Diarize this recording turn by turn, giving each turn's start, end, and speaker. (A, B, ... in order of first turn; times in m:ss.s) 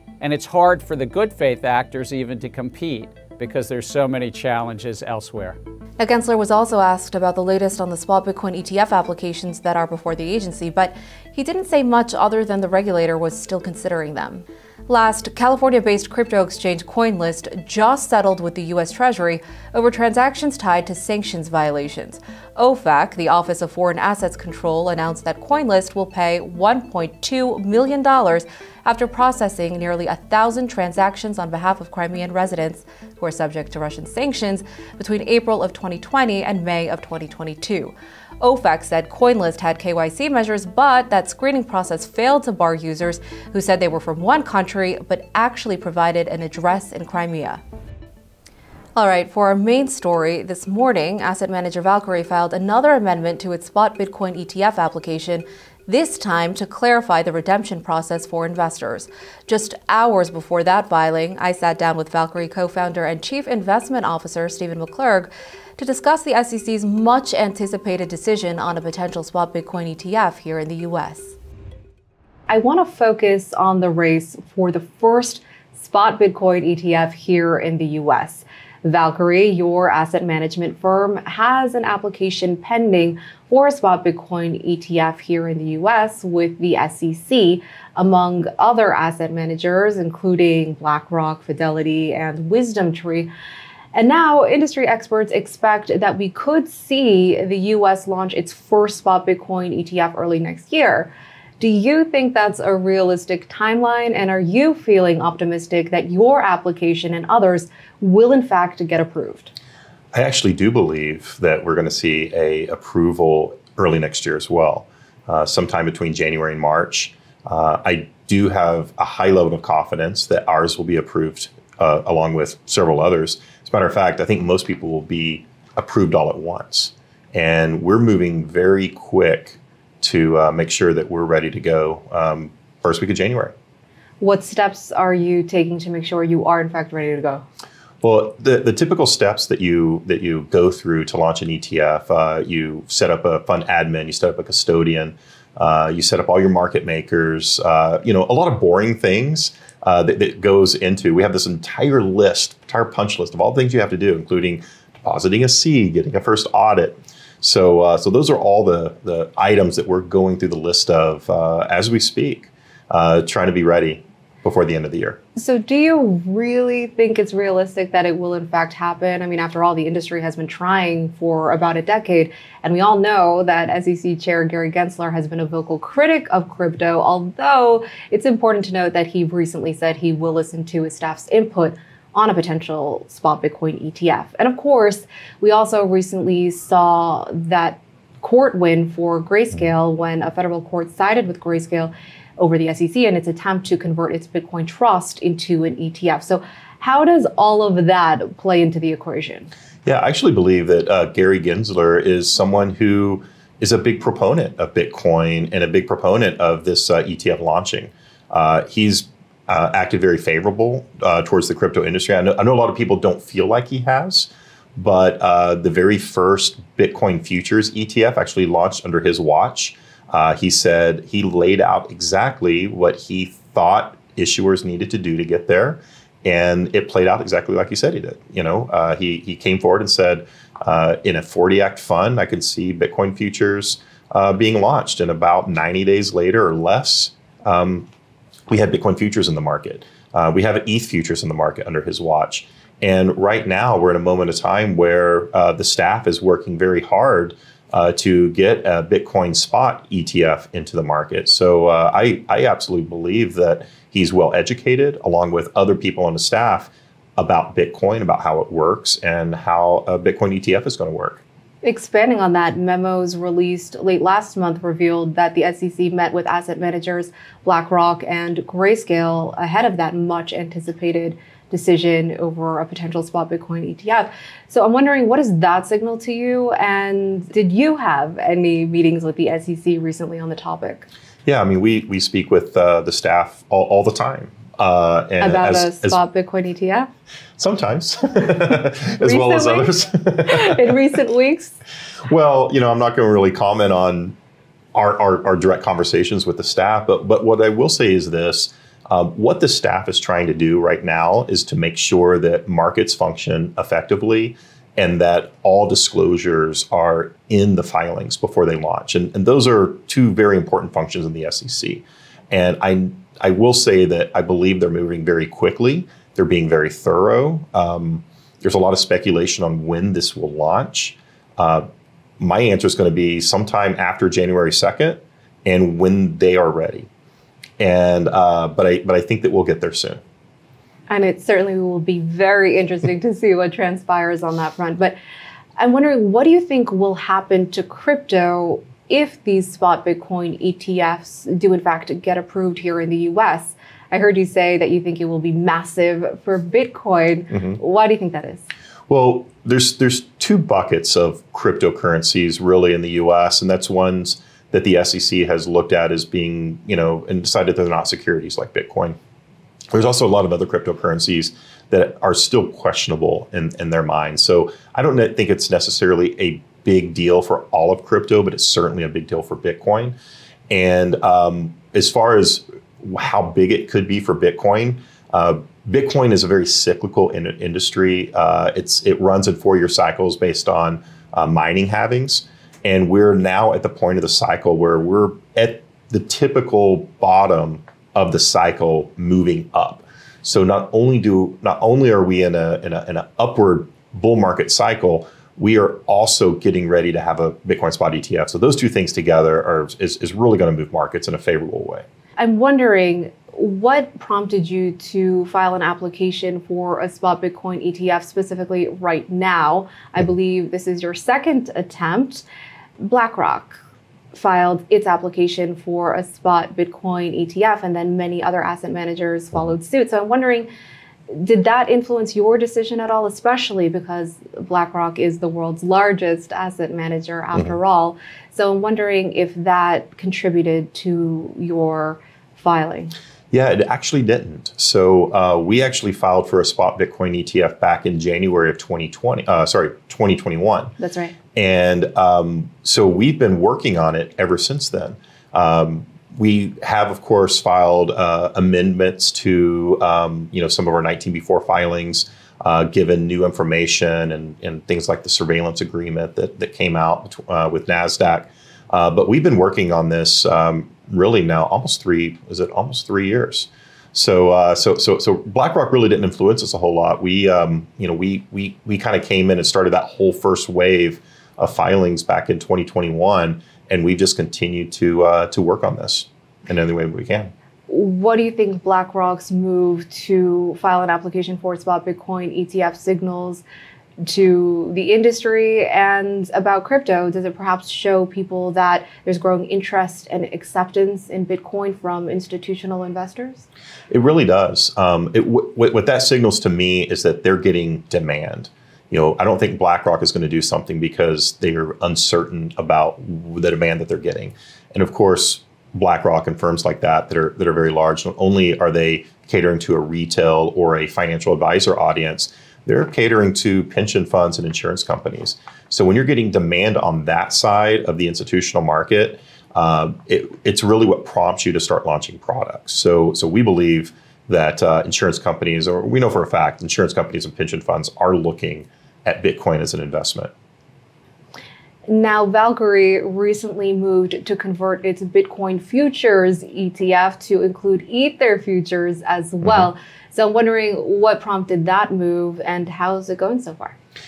0:00.2-0:05.6 A
0:06.0-0:47.6 B
0:49.0-1:11.4 B
1:12.5-1:33.3 B
1:33.9-1:49.5 B
1:50.1-2:13.5 C
2:14.2-2:17.4 B
2:18.0-2:45.2 C
2:45.4-3:19.5 B
3:19.8-3:57.9 C
3:58.5-4:21.2 C
4:21.6-4:40.9 B
4:41.2-4:46.0 C
4:45.2-4:46.9 B
4:47.4-4:50.7 C
4:49.0-4:49.7 B
4:50.2-4:51.6 B
4:52.0-4:54.2 C
4:54.7-5:21.6 C
5:22.2-5:26.9 C
5:27.6-5:30.0 C
5:30.9-5:35.0 B
5:35.6-5:48.5 B
5:48.9-5:59.0 C
5:59.7-6:10.0 C
6:10.5-6:41.8 C
6:42.2-6:52.2 B
6:52.8-6:53.6 B
6:54.1-7:00.5 B
7:01.1-7:12.9 B
7:13.3-7:20.7 C
7:20.8-7:21.2 B
7:21.3-7:57.3 C
7:57.7-8:03.4 B
8:04.0-8:13.4 B
8:13.9-8:50.3 C
8:51.9-9:03.7 B
8:59.4-8:59.7 C